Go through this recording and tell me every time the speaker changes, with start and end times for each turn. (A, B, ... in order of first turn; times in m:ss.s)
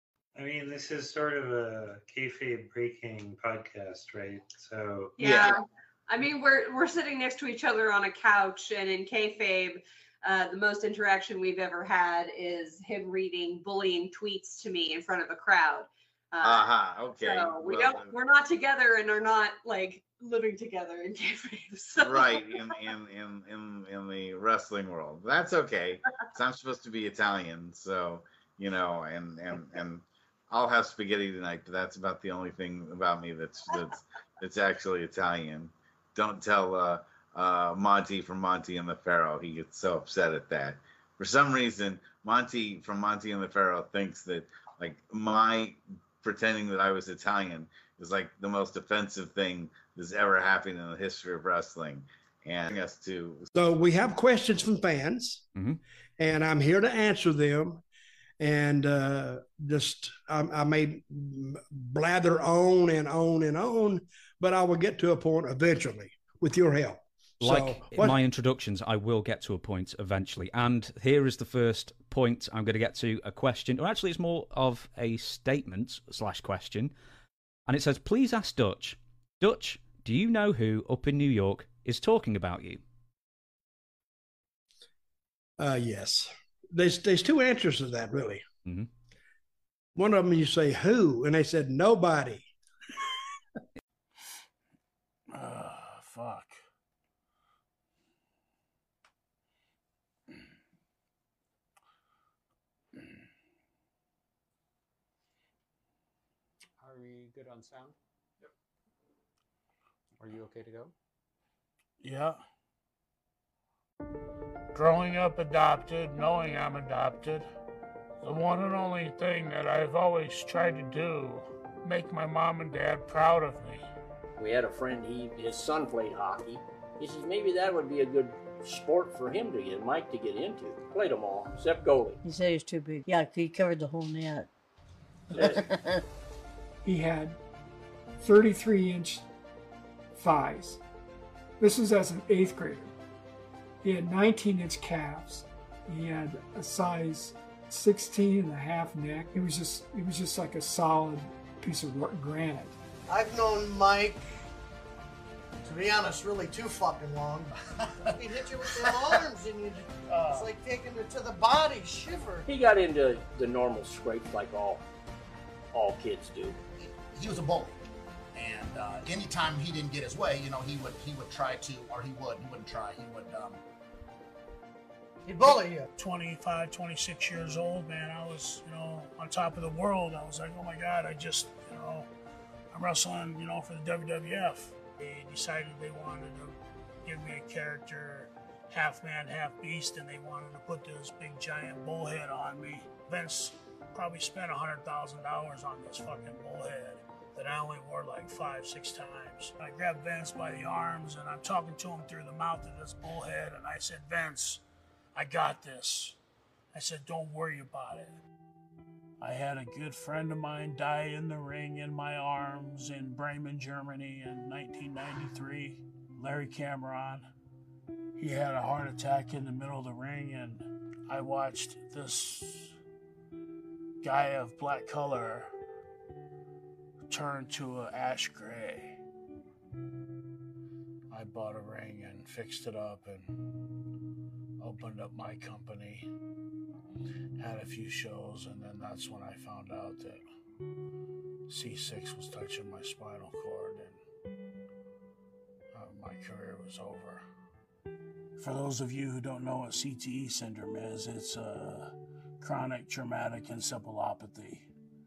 0:00.3-0:05.1 A
0:05.2-0:22.7 B
0:05.2-0:05.5 C
0:16.4-0:18.1 C
0:22.0-0:53.5 C
0:53.5-0:55.5 D
0:56.2-0:57.8 D
0:58.4-1:08.2 D
1:07.4-1:16.9 E
1:17.7-1:22.8 E
1:25.6-1:28.4 D
1:29.9-1:32.5 D
1:35.3-1:36.6 F
1:46.8-1:48.5 G
1:50.2-1:50.9 G
1:52.0-1:52.4 F
1:54.7-1:57.5 F
1:58.2-2:03.8 F
2:04.4-2:12.2 H
2:12.2-2:14.5 I
2:15.3-2:15.6 H
2:16.8-2:17.4 J
2:18.2-2:19.2 J
2:20.2-2:20.8 J
2:21.6-2:22.9 J
2:23.8-2:32.7 J
2:33.1-2:34.2 K
2:35.6-2:37.5 K
2:37.7-2:39.3 L
2:38.1-2:42.5 K
2:40.1-2:40.4 H
2:42.5-2:44.8 H
2:45.7-2:46.6 H
2:46.8-2:47.7 L
2:48.4-2:53.6 L
2:55.2-2:55.8 K
2:56.0-3:02.1 F
3:02.7-3:24.6 F
3:25.1-3:26.2 F
3:26.7-3:28.2 F
3:29.2-3:37.3 F
3:38.2-3:42.8 F
3:44.0-3:45.5 F
3:47.1-3:49.0 F
3:51.1-3:53.4 F
3:54.6-3:56.1 F
3:57.4-4:00.2 F
4:01.5-4:04.0 F
4:05.7-4:07.2 F
4:08.4-4:14.7 F